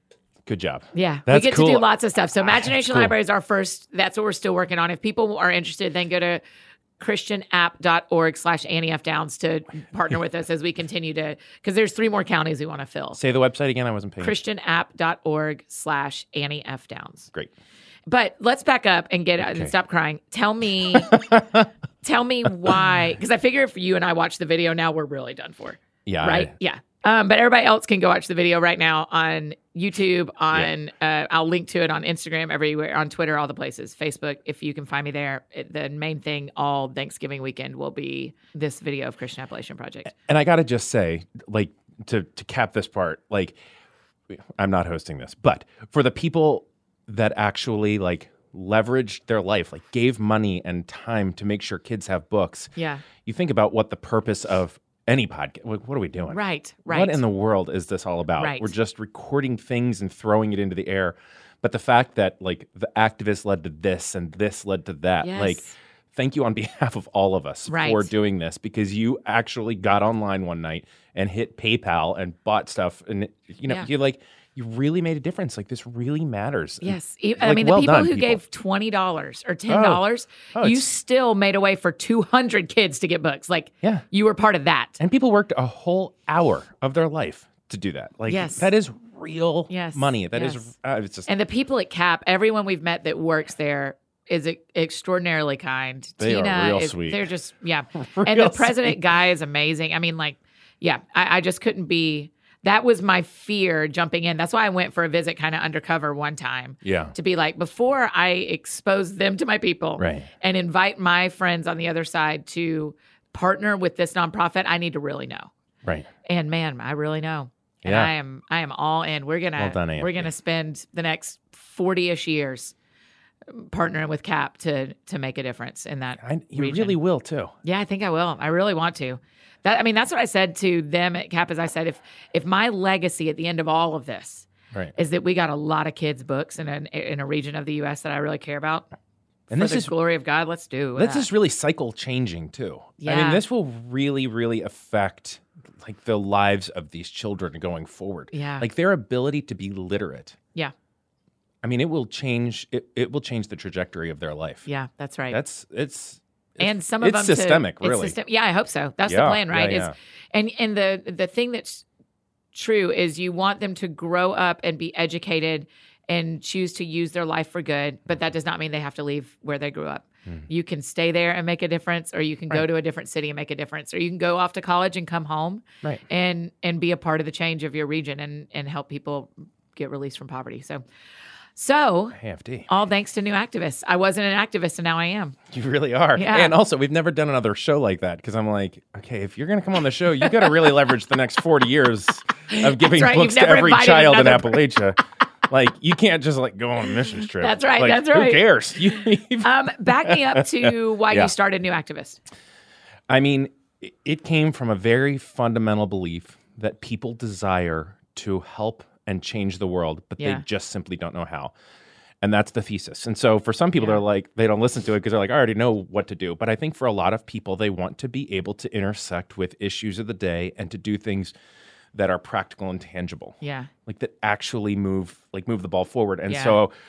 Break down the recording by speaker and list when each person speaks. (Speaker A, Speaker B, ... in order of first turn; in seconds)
Speaker A: 0.5-1.9, 2.4-3.1, 13.1-14.4, 19.4-19.7, 20.9-21.7, 26.1-26.5, 40.1-43.5, 44.3-52.7, 53.2-78.4, 79.7-80.0, 80.5-80.8, 85.0-91.3, 96.2-97.3, 98.0-99.0, 106.8-107.1, 110.0-110.3, 117.8-118.1, 119.6-120.3, 126.2-127.5, 139.5-139.9, 140.9-150.3, 151.6-154.7, 155.3-158.2, 159.1-159.9, 182.2-182.7, 185.5-199.5, 200.0-201.3, 203.1-211.5, 212.2-221.3, 221.9-226.7
Speaker B: 0.9-6.4, 7.0-13.2, 14.2-17.3, 18.1-21.2, 22.0-40.1, 52.8-53.0, 56.3-57.2, 58.4-58.7, 65.2-65.7, 67.7-68.1, 76.8-85.0, 88.3-88.7, 89.7-90.7, 91.3-115.5, 116.2-122.7, 123.5-127.0, 127.6-138.9, 139.5-141.3, 143.0-143.4, 148.3-148.7, 154.7-155.4, 156.6-161.8, 162.5-180.8, 181.6-185.4, 186.1-186.5, 190.2-190.8, 192.5-194.7, 197.3-198.4, 199.4-202.2, 210.2-210.4, 223.4-223.7, 226.3-226.6